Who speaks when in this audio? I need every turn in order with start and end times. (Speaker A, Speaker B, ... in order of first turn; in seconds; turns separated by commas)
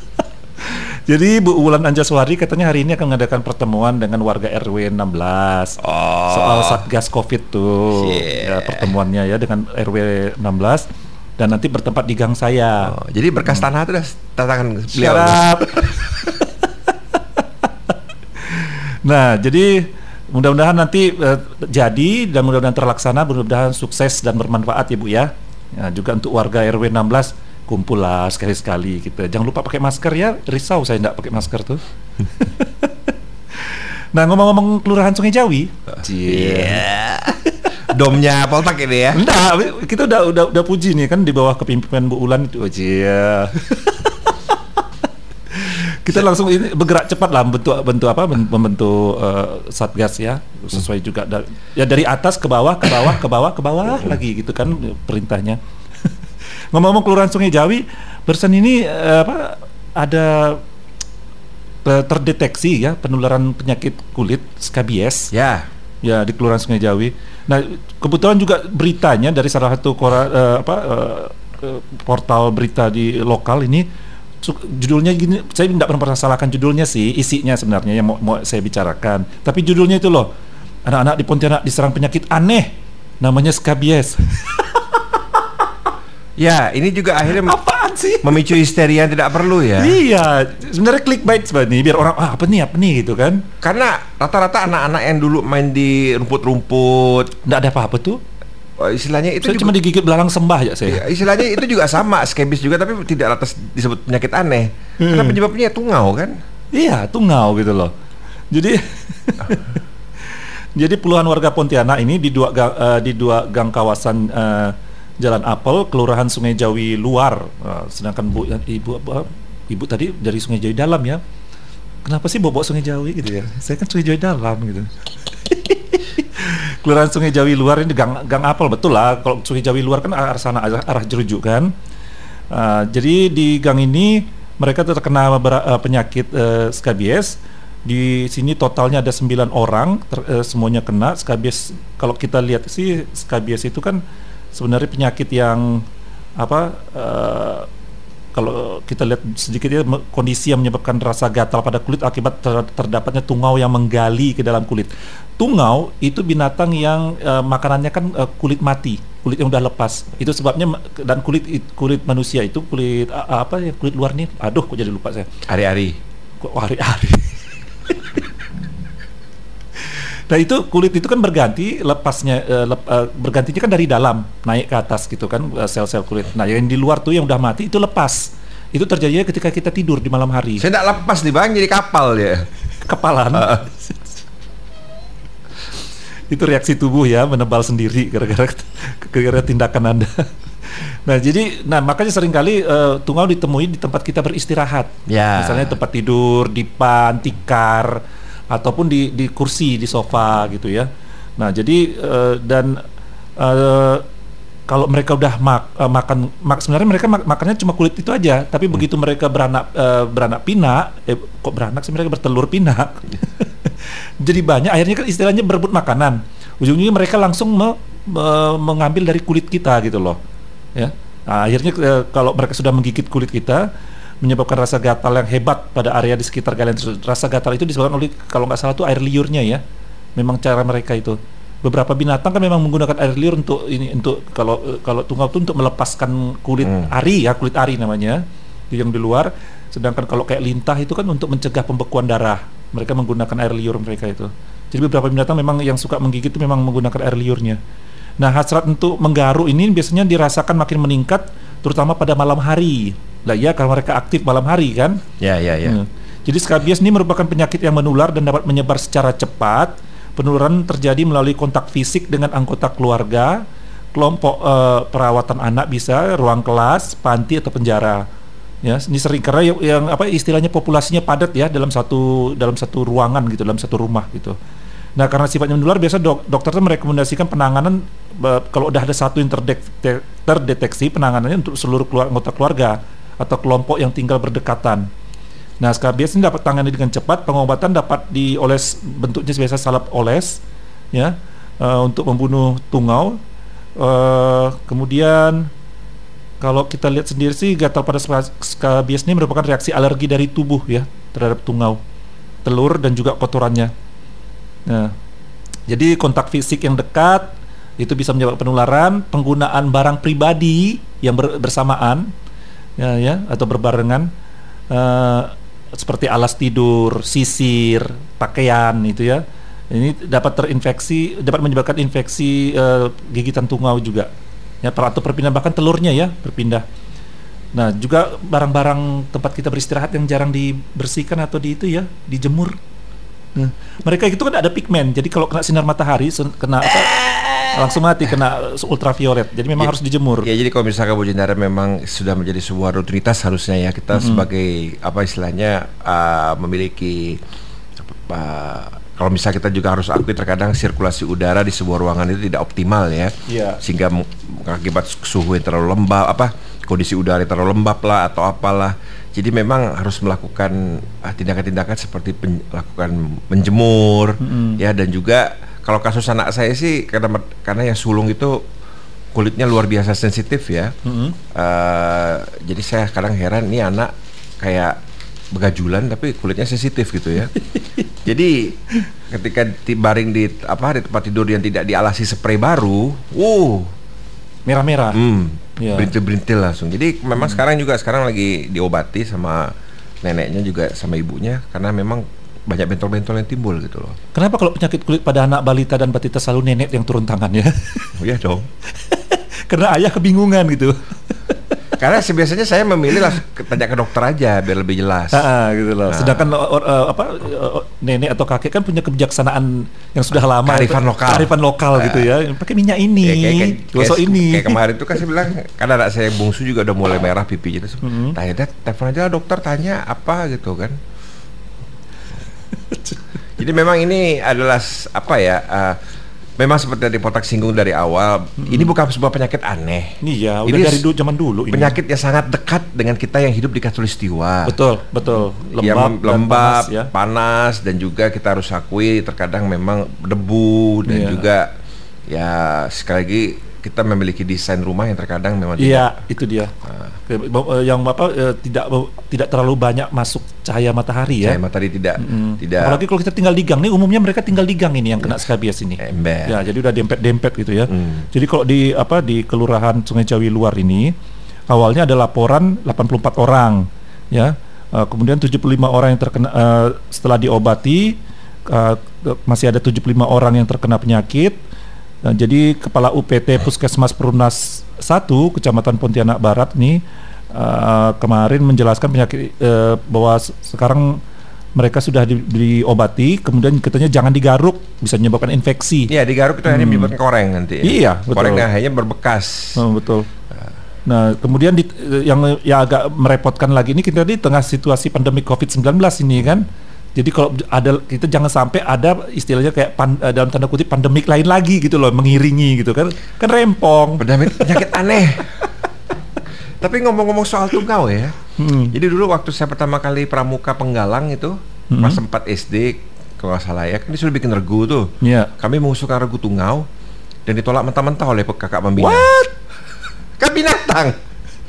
Speaker A: 0.6-12.9, Speaker B: 5.8-6.8, Speaker B: 8.0-8.9, Speaker B: 12.8-15.5, Speaker A: 14.9-36.9, Speaker B: 36.1-39.2, Speaker A: 37.4-37.7, Speaker A: 39.1-44.8, Speaker A: 45.5-56.1, Speaker A: 56.7-60.6, Speaker A: 61.9-65.3, Speaker B: 65.3-65.7, Speaker A: 66.0-73.9, Speaker A: 74.4-80.3, Speaker A: 80.9-85.4, Speaker B: 86.4-87.6, Speaker A: 87.3-88.5, Speaker B: 88.2-90.0, Speaker A: 89.8-93.5, Speaker B: 93.6-97.3, Speaker A: 97.5-98.2, Speaker B: 98.8-99.8, Speaker A: 99.4-101.6, Speaker B: 100.9-106.3, Speaker A: 105.0-105.4, Speaker A: 106.7-107.9, Speaker A: 108.5-121.2, Speaker A: 122.0-131.7, Speaker A: 132.5-144.0, Speaker A: 144.5-145.8, Speaker A: 146.4-147.7, Speaker A: 148.3-165.3, Speaker B: 165.5-166.0, Speaker A: 166.4-168.2, Speaker A: 169.8-180.7, Speaker B: 180.6-182.5, Speaker A: 182.8-184.0, Speaker B: 183.3-183.7, Speaker A: 186.3-202.8, Speaker B: 195.1-195.8, Speaker A: 203.4-204.1, Speaker A: 204.7-220.2, Speaker A: 220.8-223.7, Speaker A: 224.2-229.6, Speaker A: 230.2-247.6, Speaker A: 248.2-255.0, Speaker B: 255.2-255.8, Speaker A: 255.6-268.1, Speaker A: 268.6-274.4, Speaker A: 275.0-284.9, Speaker A: 285.6-290.4, Speaker A: 290.9-293.2, Speaker A: 293.8-295.5, Speaker A: 296.4-301.8, Speaker A: 302.4-303.7, Speaker A: 304.7-304.9, Speaker A: 305.7-312.1, Speaker A: 312.8-314.1, Speaker A: 314.7-324.1, Speaker A: 324.6-326.6, Speaker A: 327.6-332.6, Speaker A: 333.4-340.3, Speaker B: 336.8-337.6, Speaker B: 340.2-347.2, Speaker A: 343.9-344.3, Speaker B: 347.8-368.4, Speaker A: 353.3-353.6, Speaker A: 364.2-364.6, Speaker B: 369.1-370.8, Speaker A: 370.9-371.2, Speaker B: 371.3-374.8, Speaker B: 375.3-377.3, Speaker B: 378.1-378.6, Speaker B: 379.1-383.7, Speaker A: 384.5-385.0, Speaker B: 384.9-394.0, Speaker A: 385.6-385.9, Speaker A: 394.1-398.0, Speaker B: 398.0-398.5, Speaker A: 398.7-401.6, Speaker B: 401.8-405.3, Speaker A: 405.1-414.6, Speaker B: 405.9-406.3, Speaker B: 410.4-412.1, Speaker B: 413.0-420.8, Speaker A: 417.8-418.2, Speaker A: 422.6-423.0, Speaker B: 423.4-425.8, Speaker B: 426.4-430.8, Speaker A: 428.4-428.7, Speaker A: 430.0-431.8, Speaker B: 431.5-434.6, Speaker A: 434.4-436.9, Speaker B: 435.2-441.5, Speaker A: 440.9-441.3, Speaker B: 442.1-445.9, Speaker A: 445.6-446.5, Speaker A: 447.1-451.4, Speaker B: 451.2-452.8, Speaker A: 452.0-460.9, Speaker B: 455.8-456.4, Speaker B: 457.7-458.1, Speaker A: 461.5-471.4, Speaker A: 472.0-481.0, Speaker A: 481.6-485.9, Speaker B: 485.9-489.6, Speaker A: 486.5-487.0, Speaker A: 487.6-488.5, Speaker A: 489.6-490.1, Speaker A: 490.9-504.6, Speaker B: 504.0-505.4, Speaker B: 506.6-508.2, Speaker A: 508.4-508.8, Speaker B: 508.7-516.7, Speaker A: 511.7-512.0, Speaker A: 515.0-515.3, Speaker B: 517.3-519.1, Speaker A: 518.8-519.3, Speaker B: 520.2-521.0